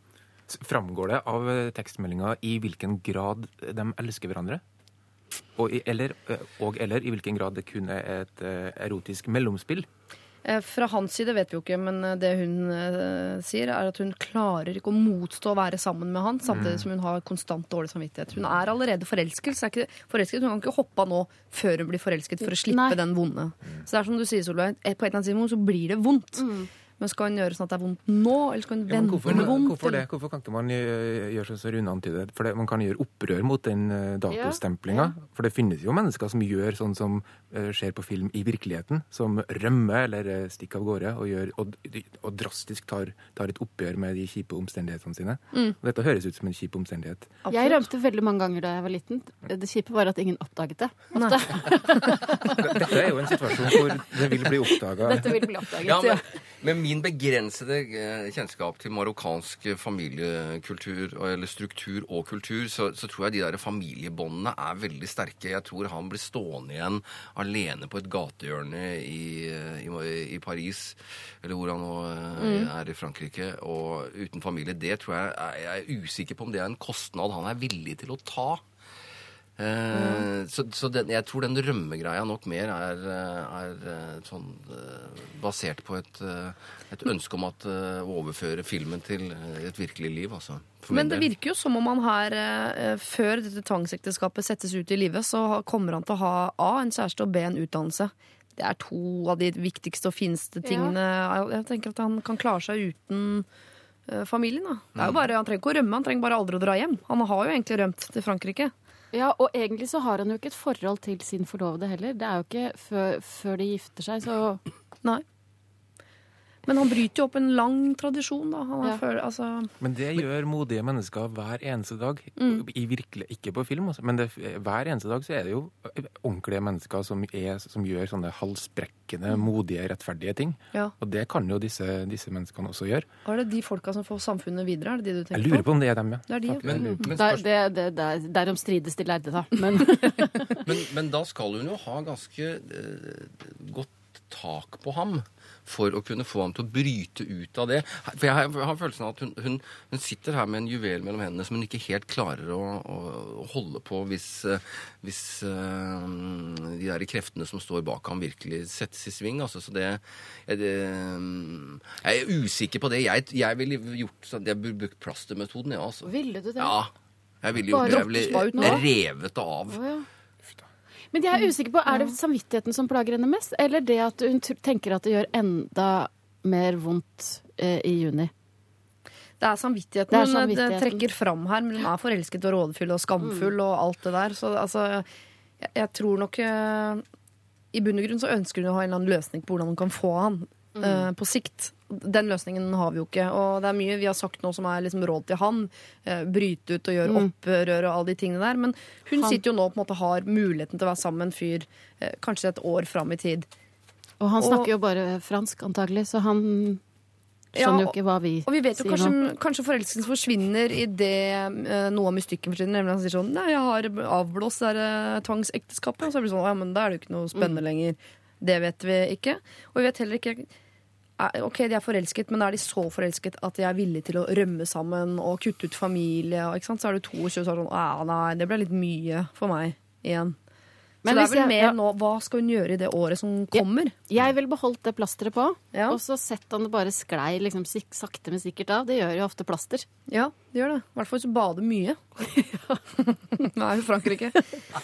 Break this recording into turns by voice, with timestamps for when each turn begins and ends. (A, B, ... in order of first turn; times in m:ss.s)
0:00.5-0:04.6 A
0:05.6-0:09.9 A
0:10.4-0:26.4 B
0:16.5-0:16.9 A
0:22.7-0:23.0 C
0:26.4-0:26.7 C
0:27.0-0:30.0 B
0:28.9-0:47.4 A
0:34.3-0:34.6 C
0:47.4-0:47.8 B
0:47.5-0:52.5 C
0:52.6-0:55.5 A
0:55.0-0:56.2 C
0:55.8-1:18.6 D
1:12.4-1:12.7 B
1:19.6-1:31.3 D
1:19.9-1:20.2 B
1:30.9-1:43.5 B
1:40.6-1:40.9 C
1:44.1-1:48.7 B
1:49.1-1:54.6 C
1:56.7-1:59.7 B
1:59.8-2:13.1 A
2:02.4-2:02.6 B
2:13.2-2:15.7 B
2:15.3-2:17.1 A
2:16.3-2:17.1 B
2:16.6-2:17.4 D
2:17.1-2:20.6 C
2:20.6-2:46.9 D
2:46.0-2:46.8 C
2:47.4-2:49.8 D
2:47.7-2:48.8 C
2:47.8-2:48.8 B
2:49.7-2:50.1 C
2:51.1-2:58.3 C
2:51.9-2:52.1 B
2:59.4-3:05.1 B
3:00.1-3:01.0 C
3:03.2-3:03.5 C
3:05.6-3:07.0 B
3:07.7-3:23.5 B
3:10.7-3:11.1 C
3:17.0-3:17.3 C
3:24.2-3:26.8 C
3:24.4-3:24.7 B
3:27.5-3:29.1 C
3:27.6-3:40.5 B
3:41.2-3:50.4 B
3:51.0-3:51.8 C
3:51.0-3:53.9 B
3:53.5-3:59.8 C
3:55.7-3:56.0 B
4:00.1-4:02.2 B
4:02.2-4:02.8 C
4:03.0-4:04.4 B